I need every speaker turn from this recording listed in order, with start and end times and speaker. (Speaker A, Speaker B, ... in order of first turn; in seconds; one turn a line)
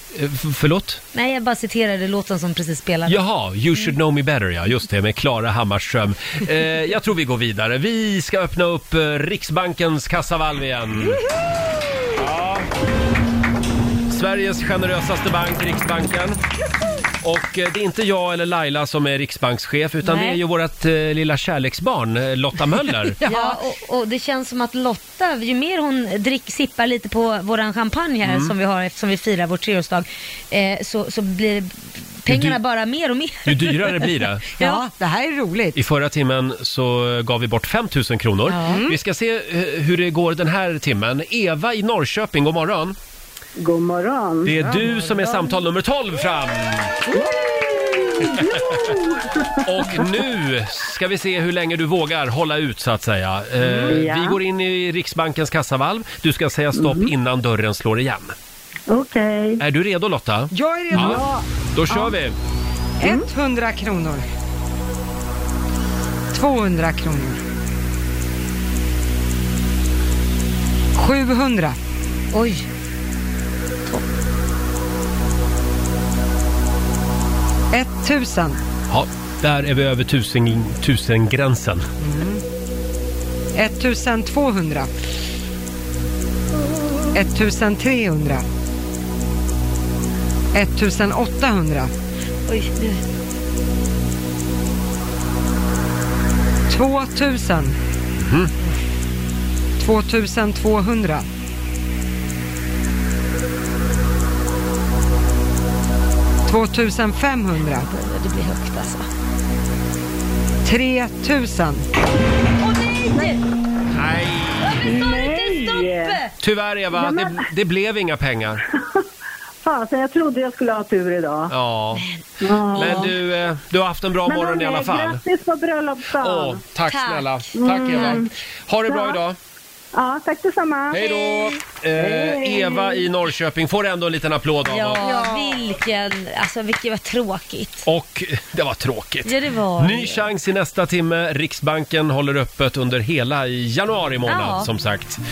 Speaker A: 0.1-1.0
Speaker B: 1.1-3.2
Speaker A: 3.1-11.2
Speaker A: 12.2-12.7
Speaker A: 14.1-16.4
Speaker A: 17.2-23.2
Speaker B: 20.0-20.4
Speaker C: 23.2-23.6
Speaker B: 23.2-34.8
Speaker A: 28.2-28.5
Speaker A: 32.3-32.6
Speaker A: 33.4-34.4
Speaker C: 34.6-35.8
Speaker A: 35.7-43.0
Speaker B: 38.5-38.8
Speaker C: 38.6-39.0
Speaker D: 43.6-44.7
Speaker A: 44.4-47.0
Speaker C: 44.6-45.1
Speaker D: 47.1-50.0
Speaker A: 48.4-48.9
Speaker A: 49.6-58.3
Speaker C: 53.6-54.0
Speaker D: 53.8-54.4
Speaker D: 56.8-57.1
Speaker D: 58.9-59.6
Speaker A: 59.6-62.3
Speaker C: 60.5-61.3
Speaker D: 61.0-61.4
Speaker C: 63.0-64.2
Speaker C: 66.3-67.4
Speaker C: 70.9-71.8
Speaker B: 72.3-72.7
Speaker C: 77.7-78.6
Speaker A: 78.9-81.9
Speaker C: 82.0-82.4
Speaker C: 83.5-84.9
Speaker C: 87.1-88.4
Speaker C: 90.5-91.9
Speaker B: 92.5-93.0
Speaker C: 96.7-97.7
Speaker A: 98.2-98.5
Speaker C: 99.8-101.2
Speaker C: 106.5-107.9
Speaker B: 107.8-109.0
Speaker C: 110.6-111.8
Speaker B: 112.6-113.4
Speaker A: 114.0-114.8
Speaker B: 114.6-116.3
Speaker D: 114.8-116.2
Speaker A: 116.4-118.6
Speaker D: 119.6-121.5
Speaker A: 121.5-122.0
Speaker D: 122.4-123.1
Speaker B: 122.7-123.1
Speaker A: 122.7-125.2
Speaker D: 124.2-126.6
Speaker A: 126.2-129.4
Speaker B: 126.9-128.2
Speaker D: 127.5-128.3
Speaker D: 128.9-129.2
Speaker D: 129.9-131.0
Speaker A: 130.9-135.0
Speaker B: 131.0-131.5
Speaker D: 131.9-133.0
Speaker B: 134.7-137.8
Speaker C: 135.0-135.5
Speaker A: 137.8-145.2
Speaker B: 139.2-140.3
Speaker B: 144.2-144.7